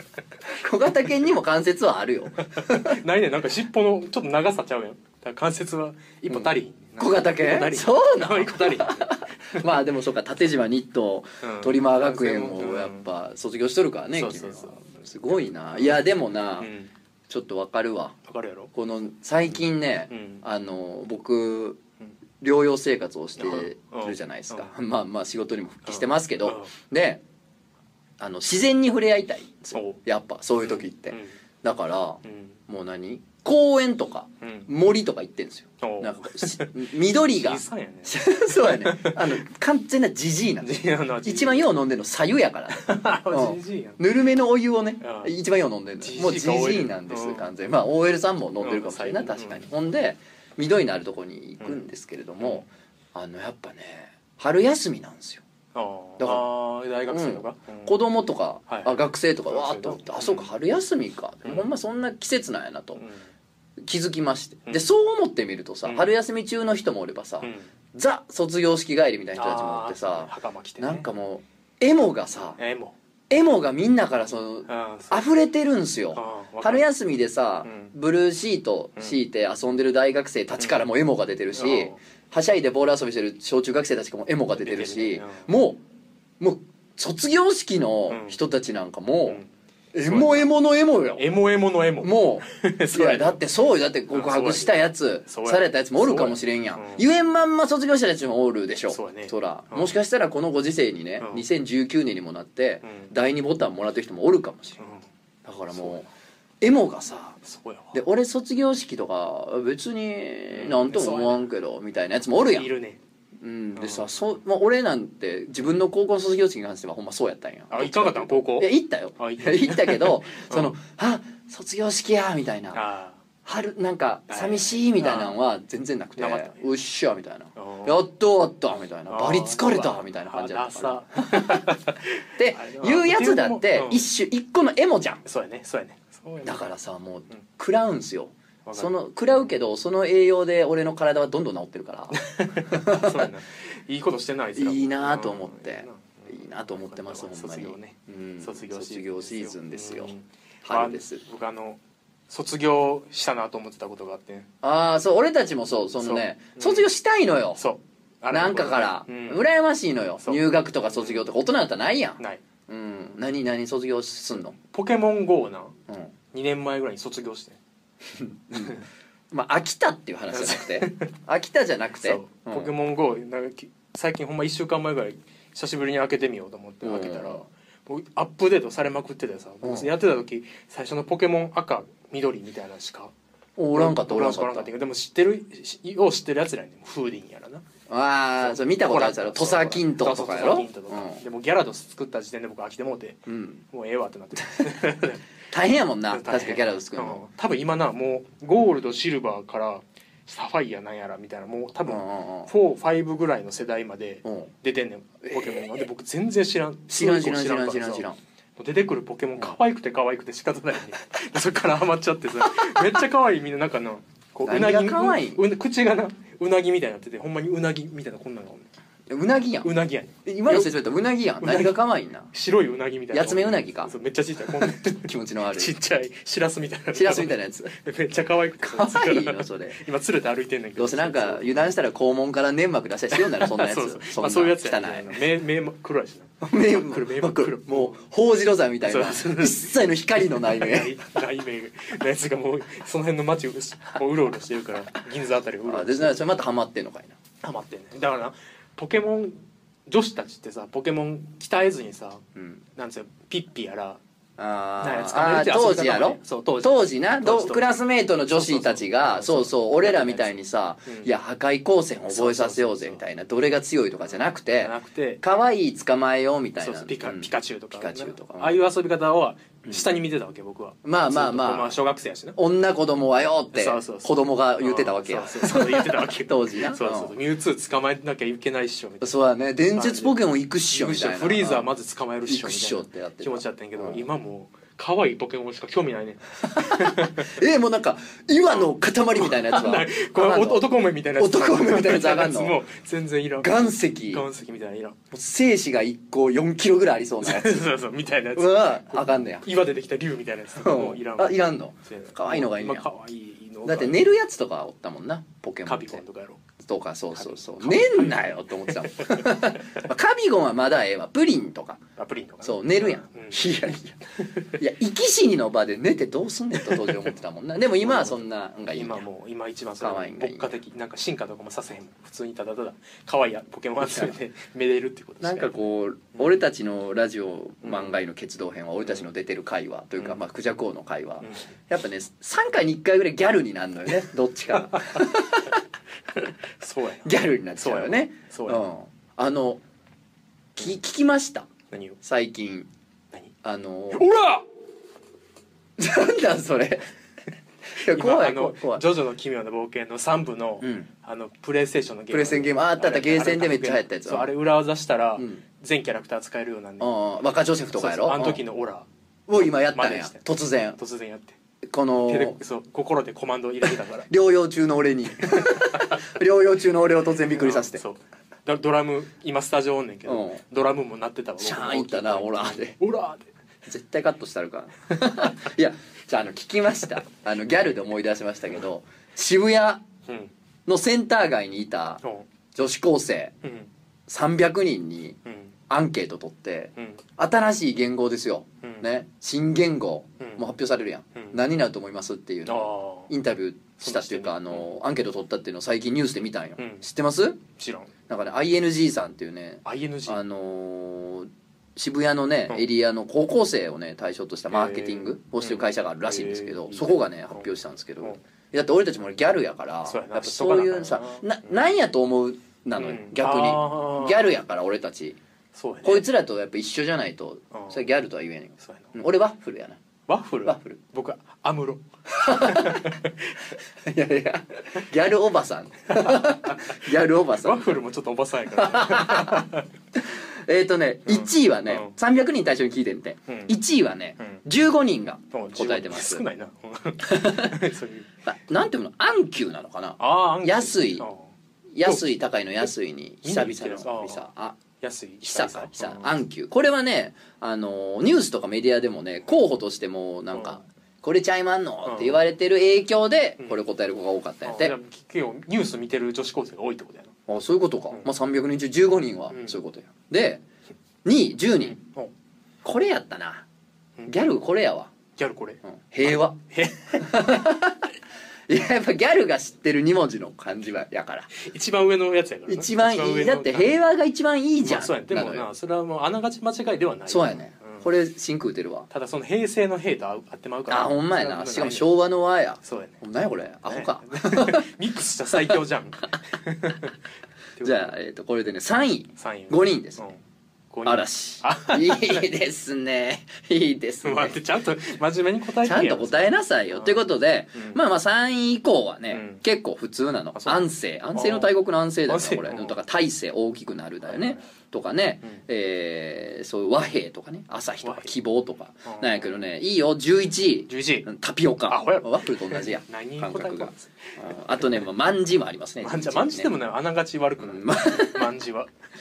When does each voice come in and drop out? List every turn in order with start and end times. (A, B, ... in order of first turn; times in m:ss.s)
0:00.4-0:03.0 A
0:02.4-0:09.6 B
0:06.3-0:16.7 A
0:11.4-0:13.0 B
0:14.1-0:15.0 B
0:15.7-0:16.0 B
0:16.6-0:16.9 B
0:17.3-0:18.1 A
0:18.2-0:18.7 B
0:18.7-0:21.8 A
0:20.1-0:20.4 B
0:22.4-0:27.2 A
0:23.4-0:24.7 B
0:25.8-0:26.7 B
0:28.2-0:55.4 A
0:29.7-0:30.0 B
0:30.6-0:31.4 B
0:32.2-0:32.6 B
0:34.4-0:34.7 B
0:35.8-0:39.4 B
0:40.6-0:41.7 B
0:42.7-0:44.0 B
0:45.0-0:45.3 B
0:46.0-0:47.5 B
0:48.6-0:49.6 B
0:52.4-0:52.7 B
0:55.7-0:58.0 B
0:56.2-0:56.5 A
0:57.1-1:03.0 A
0:58.7-1:00.5 B
1:01.4-1:01.7 B
1:03.0-1:03.3 B
1:03.8-1:12.6 A
1:05.8-1:06.1 B
1:07.4-1:07.7 B
1:09.3-1:11.0 B
1:12.6-1:12.9 B
1:13.3-1:25.8 A
1:14.7-1:15.3 B
1:16.1-1:16.9 B
1:17.6-1:17.9 B
1:20.6-1:20.8 B
1:21.5-1:22.0 B
1:24.5-1:25.5 B
1:26.4-1:29.4 A
1:28.1-1:28.4 B
1:29.9-1:31.2 A
1:30.0-1:30.5 B
1:31.2-1:33.4 B
1:32.0-1:44.8 A
1:34.1-1:37.0 B
1:38.9-1:39.9 B
1:41.2-1:41.4 B
1:42.8-1:43.1 B
1:44.8-1:45.0 B
1:45.4-1:46.0 A
1:45.7-1:46.0 B
1:46.6-1:47.4 A
1:47.4-1:48.0 B
1:47.9-1:52.7 A
1:50.5-1:51.5 B
1:52.5-1:53.0 B
1:53.4-2:02.8 A
1:53.8-1:54.1 B
1:57.7-2:00.7 B
2:02.7-2:03.2 B
2:03.4-2:11.8 A
2:04.3-2:05.4 B
2:06.2-2:06.7 B
2:07.6-2:07.9 B
2:09.1-2:14.0 B
2:12.4-2:15.2 A
2:15.2-2:16.7 B
2:16.4-2:22.2 A
2:18.6-2:19.5 B
2:22.1-2:34.5 B
2:22.7-2:23.3 A
2:24.6-2:30.1 A
2:30.6-2:31.2 A
2:34.6-2:37.6 A
2:36.0-2:36.9 B
2:37.6-2:39.4 B
2:38.3-2:44.6 A
2:40.2-2:41.3 B
2:44.7-2:45.7 B
2:46.3-2:47.6 B
2:48.1-2:48.8 A
2:49.3-2:52.7 A
2:50.3-2:51.1 B
2:52.0-3:03.1 B
2:56.8-2:57.4 A
2:59.6-2:59.9 A
3:03.6-3:04.7 A
3:03.7-3:07.6 B
3:07.9-3:11.2 A
3:08.4-3:15.2 B
3:13.3-3:13.6 A
3:15.5-3:17.2 A
3:16.1-3:28.0 B
3:21.8-3:22.5 A
3:24.2-3:24.5 A
3:25.2-3:25.8 A
3:26.9-3:28.2 A
3:28.6-3:38.7 B
3:34.4-3:35.4 A
3:39.1-3:39.7 A
3:39.6-3:40.7 B
3:40.2-3:42.3 A
3:41.4-3:41.7 B
3:42.3-3:51.6 B
3:43.1-3:43.9 A
3:44.6-3:45.8 A
3:46.9-3:47.7 A
3:48.6-3:49.8 A
3:50.8-3:55.2 A
3:53.1-3:58.0 B
3:56.4-4:00.9 A
3:58.8-3:59.7 B
4:00.4-4:06.2 B
4:05.6-4:07.2 A
4:07.4-4:12.2 B
4:12.3-4:12.6 A
4:12.7-4:14.0 B
4:14.4-4:28.6 A
4:14.8-4:17.8 B
4:18.3-4:21.1 B
4:22.1-4:23.0 B
4:24.6-4:25.2 B
4:26.6-4:32.4 B
4:30.8-4:31.8 A
4:32.4-4:37.1 A
4:33.5-4:39.1 B
4:39.0-4:41.7 A
4:39.7-4:40.2 B
4:40.7-4:47.4 B
4:42.3-4:44.0 A
4:46.5-4:52.6 A
4:48.5-4:55.0 B
4:53.4-4:54.2 A
4:55.1-4:57.7 A
4:57.2-5:04.0 B
4:58.3-4:59.5 A
5:00.6-5:02.9 A
5:03.6-5:06.0 A
5:05.6-5:06.4 B
5:06.6-5:11.8 A
5:07.1-5:09.8 B
5:12.0-5:13.6 B
5:12.4-5:14.0 A
5:14.2-5:14.6 B
5:14.5-5:19.0 A
5:16.6-5:17.1 B
5:17.8-5:18.2 B
5:18.7-5:26.3 B
5:19.8-5:20.6 A
5:23.8-5:24.1 A
5:25.2-5:35.5 A
5:27.6-5:28.0 B
5:34.6-5:35.1 B
5:36.1-5:38.6 B
5:37.0-5:39.6 A
5:40.6-5:41.5 A
5:41.7-5:42.0 B
5:42.0-5:42.7 A
5:43.4-5:44.1 A
5:43.9-5:44.4 B
5:45.8-5:46.9 A
5:47.7-5:48.8 A
5:47.8-5:56.9 B
5:50.6-5:50.9 A
5:52.1-5:54.3 A
5:56.8-5:58.4 A
5:57.8-5:58.9 B
5:59.3-6:00.8 A
5:59.4-6:00.2 B
6:00.8-6:01.4 B
6:01.6-6:02.4 A
6:02.0-6:04.1 B
6:04.1-6:07.8 A
6:05.3-6:06.0 B
6:07.4-6:13.3 B
6:10.0-6:10.4 A
6:11.4-6:12.8 A
6:13.6-6:19.8 A
6:20.1-6:20.3 B
6:20.6-6:22.0 A
6:22.5-6:23.3 A
6:23.4-6:23.7 B
6:24.1-6:25.2 A
6:25.2-6:25.5 B
6:25.7-6:37.4 A
6:26.8-6:27.0 B
6:31.1-6:31.4 B
6:32.4-6:33.1 B
6:33.8-6:34.7 B
6:36.6-6:36.8 B
6:37.5-6:37.9 B
6:38.1-6:55.2 A
6:39.6-6:40.2 B
6:44.5-6:47.5 B
6:49.8-6:51.5 B
6:52.8-6:54.2 B
6:55.5-6:56.1 B
6:55.8-6:59.8 A
6:57.5-6:57.9 B
6:58.6-6:59.0 B
7:00.1-7:03.5 B
7:00.4-7:00.8 A
7:02.1-7:03.0 A
7:03.8-7:07.8 A
7:05.9-7:09.7 B
7:08.5-7:16.2 A
7:11.1-7:11.9 B
7:13.3-7:13.5 B
7:15.3-7:18.1 B
7:17.0-7:17.6 A
7:18.2-7:21.0 A
7:20.0-7:21.3 B
7:21.7-7:24.6 A
7:23.2-7:24.3 B
7:24.8-7:26.1 B
7:25.2-7:34.7 A
7:31.8-7:32.2 B
7:34.4-7:37.1 B
7:37.3-7:40.4 A
7:39.3-7:39.6 B
7:41.0-7:41.8 A
7:41.6-7:42.1 B
7:42.6-7:43.4 A
7:44.1-7:44.9 A
7:45.2-7:45.6 B
7:45.6-7:46.4 A
7:46.5-7:47.3 B
7:47.0-7:47.9 A
7:48.5-7:51.3 A
7:51.3-7:53.7 B
7:52.5-7:55.5 A
7:54.6-7:57.9 B
7:57.1-7:58.9 A
7:58.9-8:01.9 B
8:00.7-8:04.7 A
8:02.6-8:03.0 B
8:03.7-8:06.9 B
8:07.6-8:07.9 B
8:07.6-8:10.1 A
8:09.2-8:12.3 B
8:10.8-8:14.4 A
8:14.0-8:17.0 B
8:15.6-8:36.5 A
8:17.5-8:17.8 B
8:19.1-8:19.4 B
8:20.3-8:21.5 B
8:22.1-8:22.8 B
8:24.0-8:24.5 B
8:27.8-8:28.1 B
8:28.8-8:29.4 B
8:30.7-8:31.1 B
8:31.7-8:34.8 B
8:35.8-8:38.7 B
8:37.4-8:38.3 A